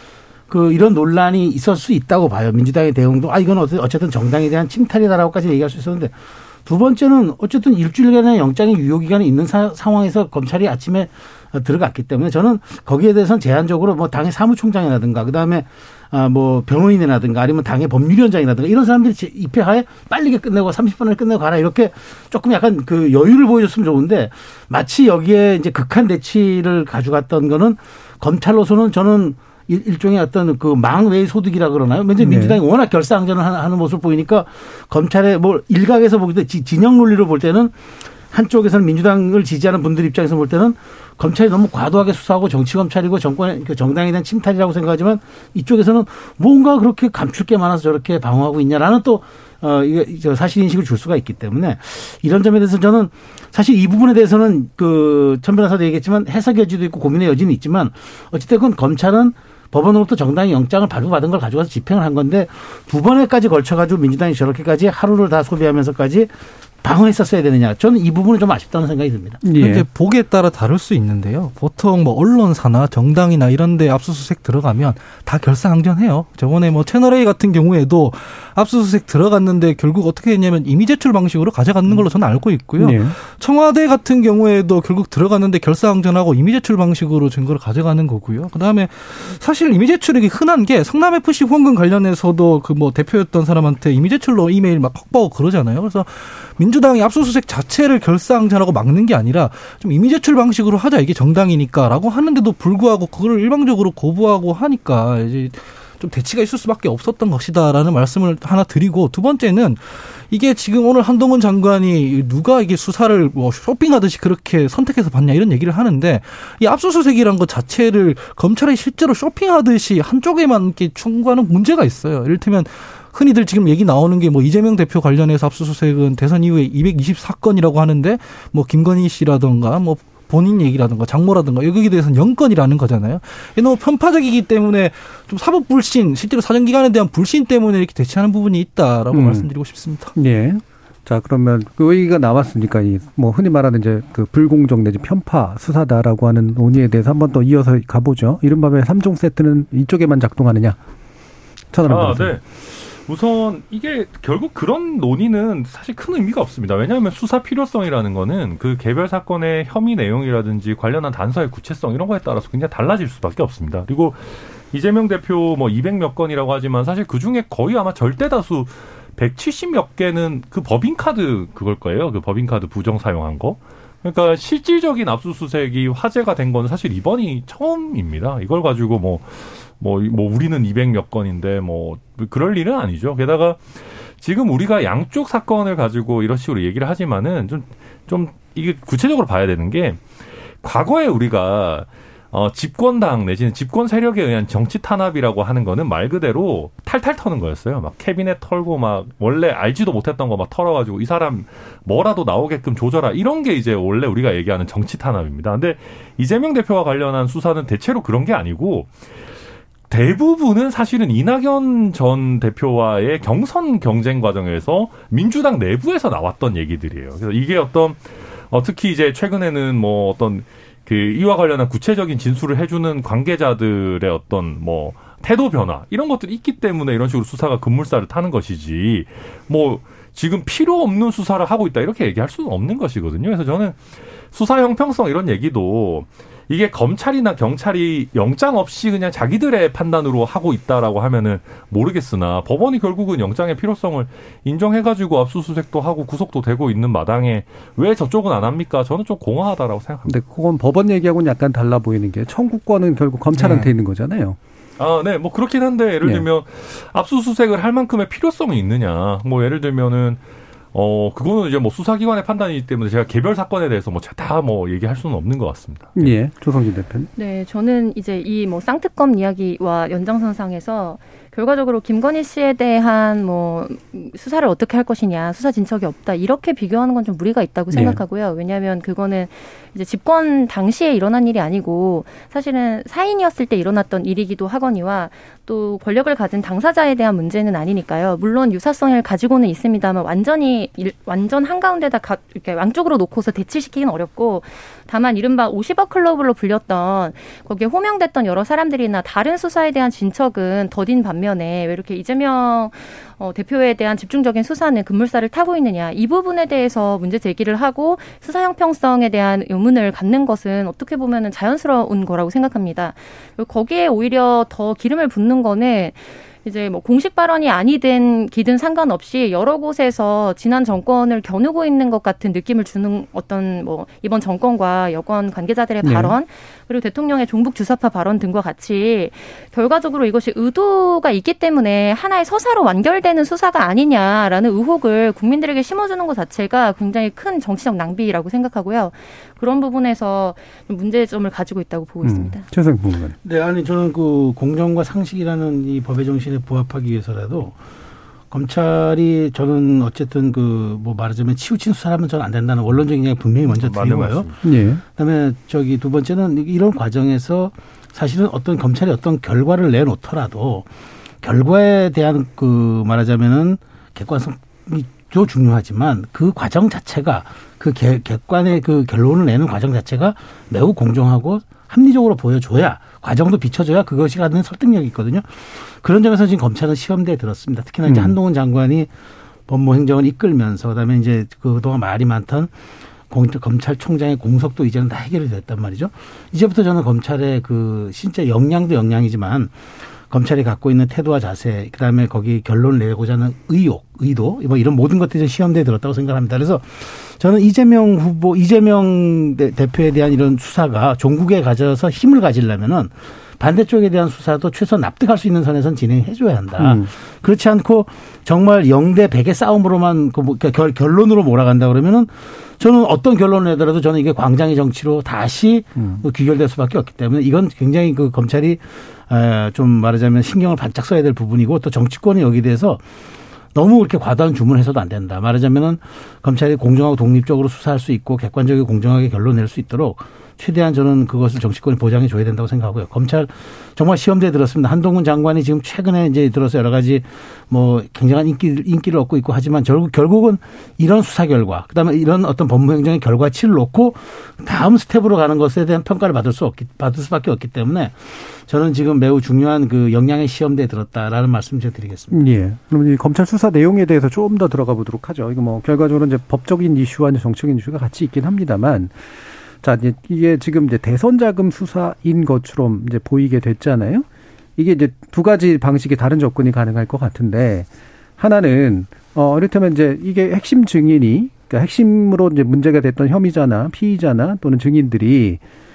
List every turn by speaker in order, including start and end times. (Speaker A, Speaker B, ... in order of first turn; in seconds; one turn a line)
Speaker A: 0.5-37.8
Speaker B: 32.2-32.6
Speaker A: 38.3-66.3
Speaker A: 66.8-69.4
Speaker B: 69.4-69.9
Speaker C: 69.5-140.1
Speaker B: 82.8-83.2
Speaker B: 139.1-139.5
Speaker B: 140.2-150.8
Speaker B: 151.7-152.4
Speaker D: 151.9-183.6
Speaker D: 184.2-190.0
Speaker D: 190.6-208.9
Speaker D: 209.9-233.8
Speaker D: 234.3-250.1
Speaker B: 250.1-254.4
Speaker C: 253.3-253.7
Speaker D: 254.8-260.2
Speaker D: 260.7-266.1
Speaker B: 266.0-267.1
Speaker E: 267.2-342.4
Speaker B: 277.7-278.0
Speaker B: 325.8-326.2
Speaker B: 342.0-343.2
Speaker A: 343.2-347.6
Speaker A: 348.3-354.3
Speaker D: 353.5-354.4
Speaker B: 354.4-354.8
Speaker A: 354.9-360.7
Speaker A: 361.2-378.9
Speaker B: 377.9-378.2
Speaker A: 379.5-382.5
Speaker A: 383.1-389.5
Speaker A: 390.1-422.8
Speaker B: 406.6-406.9
Speaker B: 415.8-416.0
Speaker A: 423.5-452.2
Speaker B: 452.1-459.0
Speaker B: 459.6-464.1
Speaker B: 464.6-475.4